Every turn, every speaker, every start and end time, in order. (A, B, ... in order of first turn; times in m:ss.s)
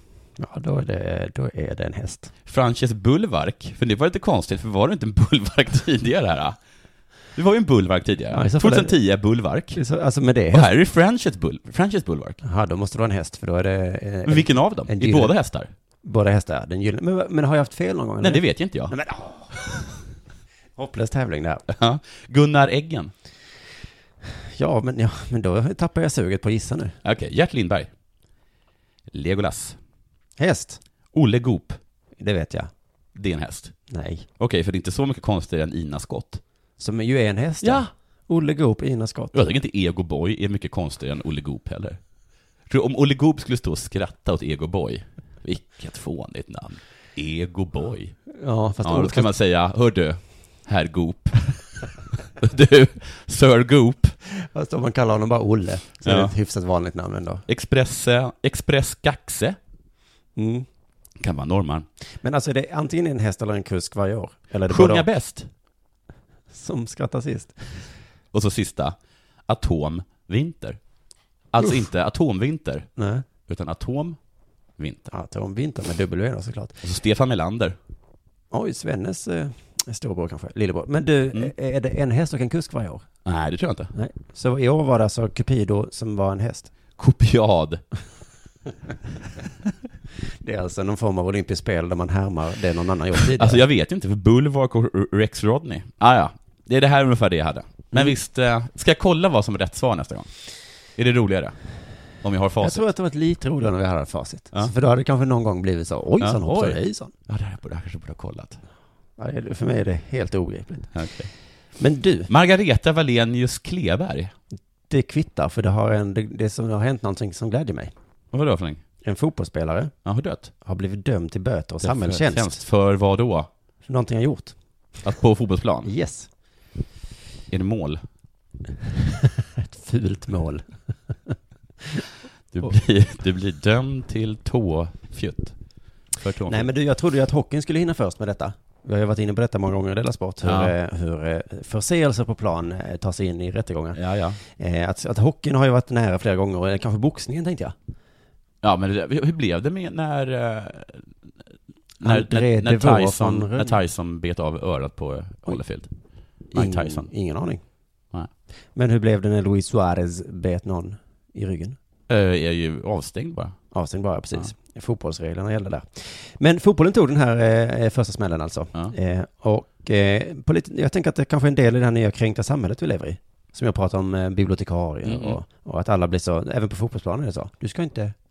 0:00.4-0:02.3 A
0:02.5-0:06.6 B
0:07.3-0:09.8 B
0:08.3-0:09.0 A
0:09.7-0:10.7 A
0:10.5-0:12.4 B
0:12.4-0:15.3 A
0:14.2-0:15.7 B
0:16.0-0:19.8 A
0:18.2-0:19.0 B
0:20.8-0:21.6 A
0:21.7-0:23.1 B
0:24.6-0:27.0 A
0:27.0-0:27.9 B
0:29.1-0:29.8 B
0:30.4-0:30.8 A
0:31.1-0:31.8 B
0:32.2-0:32.7 A
0:33.1-0:33.8 B
0:33.9-0:34.3 A
0:34.4-0:36.4 B
0:36.8-0:39.4 A
0:37.6-0:37.9 B
0:39.3-0:42.0 B
0:42.7-0:48.2 B
0:48.3-0:49.3 A
0:48.8-0:51.7 B
0:52.4-0:54.1 B
0:54.4-0:57.4 A
0:56.0-0:56.3 B
0:57.5-0:59.6 B
1:00.4-1:00.6 A
1:01.2-1:01.9 B
1:02.2-1:05.1 A
1:04.7-1:05.5 B
1:06.5-1:07.9 A
1:08.3-1:09.0 B
1:09.5-1:10.8 B
1:11.5-1:12.9 B
1:13.0-1:13.2 A
1:13.4-1:14.2 B
1:14.8-1:15.1 B
1:15.1-1:16.8 A
1:16.8-1:17.8 B
1:18.5-1:23.0 A
1:23.2-1:23.9 B
1:23.9-1:26.7 A
1:27.0-1:27.8 B
1:30.4-1:33.6 A
1:33.2-1:40.3 B
1:41.0-1:41.6 B
1:42.2-1:42.8 B
1:42.6-1:47.1 A
1:46.2-1:48.6 B
1:49.2-1:50.9 A
1:50.9-1:51.3 B
1:51.8-1:52.3 A
1:52.3-1:54.3 B
1:54.9-1:57.9 A
1:58.3-1:58.8 B
1:59.0-1:59.9 A
2:00.0-2:00.5 B
2:00.6-2:02.6 A
2:01.8-2:03.5 B
2:03.8-2:04.6 A
2:05.0-2:05.9 B
2:05.8-2:06.3 A
2:07.5-2:08.0 B
2:09.6-2:10.8 A
2:12.5-2:15.6 B
2:16.1-2:16.7 B
2:16.5-2:27.7 A
2:20.4-2:20.7 B
2:23.9-2:24.4 B
2:28.6-2:31.1 B
2:32.0-2:35.9 B
2:32.0-2:33.8 A
2:36.5-2:37.1 B
2:36.5-2:37.6 A
2:38.7-2:41.8 A
2:42.1-2:43.6 B
2:43.7-2:58.1 A
2:55.0-2:55.4 B